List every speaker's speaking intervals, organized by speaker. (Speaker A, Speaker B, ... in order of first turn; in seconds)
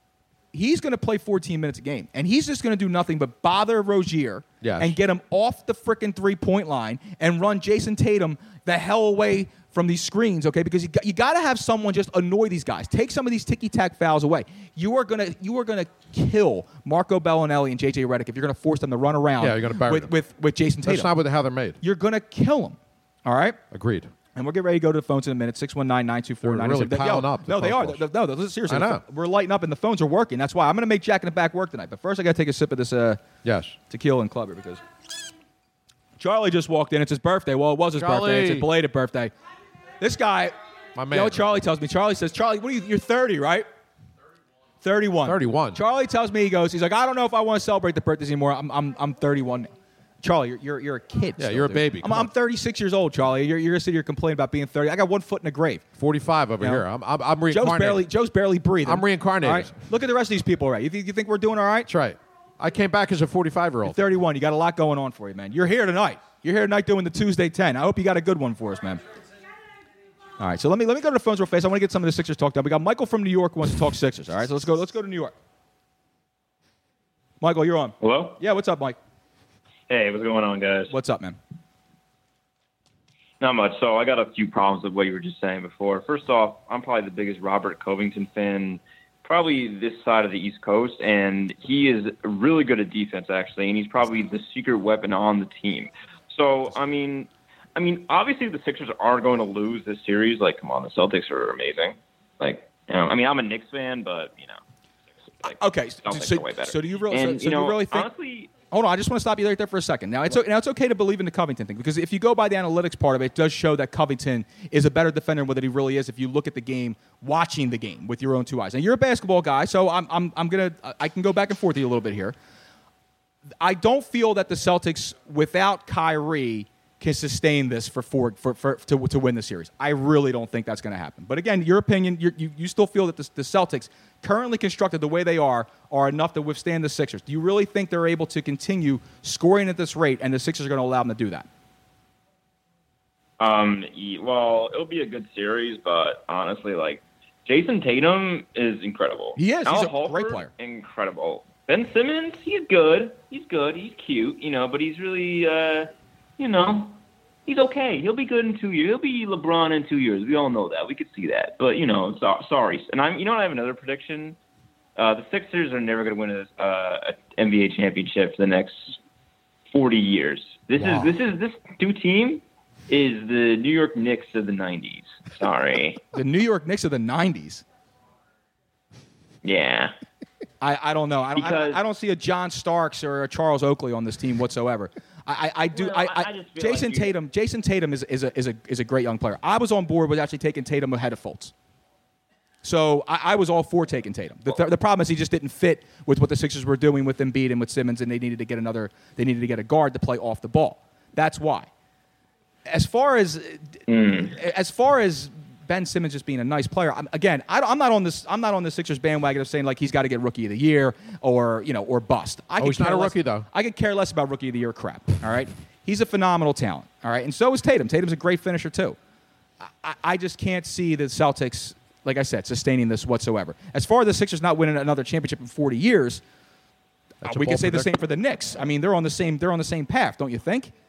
Speaker A: 0.5-21.1, 21.8-23.6, 24.3-33.2, 33.9-34.8, 36.2-39.3, 40.0-40.5, 41.1-43.7, 44.8-55.9, 57.5-61.9, 63.9-69.0, 70.4-75.3, 77.4-79.0, 80.9-81.4, 105.5-108.1, 108.7-122.3, 123.6-141.5, 149.4-150.5, 176.1-177.6, 180.6-191.5, 192.6-201.7, 202.7-219.0, 219.6-226.2, 227.2-230.7
Speaker B: 4.6-5.0, 19.4-20.1, 20.8-21.8, 23.7-24.1, 26.4-28.0, 28.7-29.0, 33.4-33.8, 38.0-38.7, 41.0-41.6, 45.2-45.8, 51.4-52.3, 56.0-58.1, 58.8-59.7, 61.9-64.0, 170.8-171.1, 212.6-213.5, 227.2-227.9
Speaker C: 78.0-78.4, 79.9-80.9, 83.4-104.6, 105.4-108.5, 143.4-164.4, 165.0-169.0, 169.7-176.0, 179.4-179.9, 181.3-181.8, 185.7-187.2, 203.9-204.3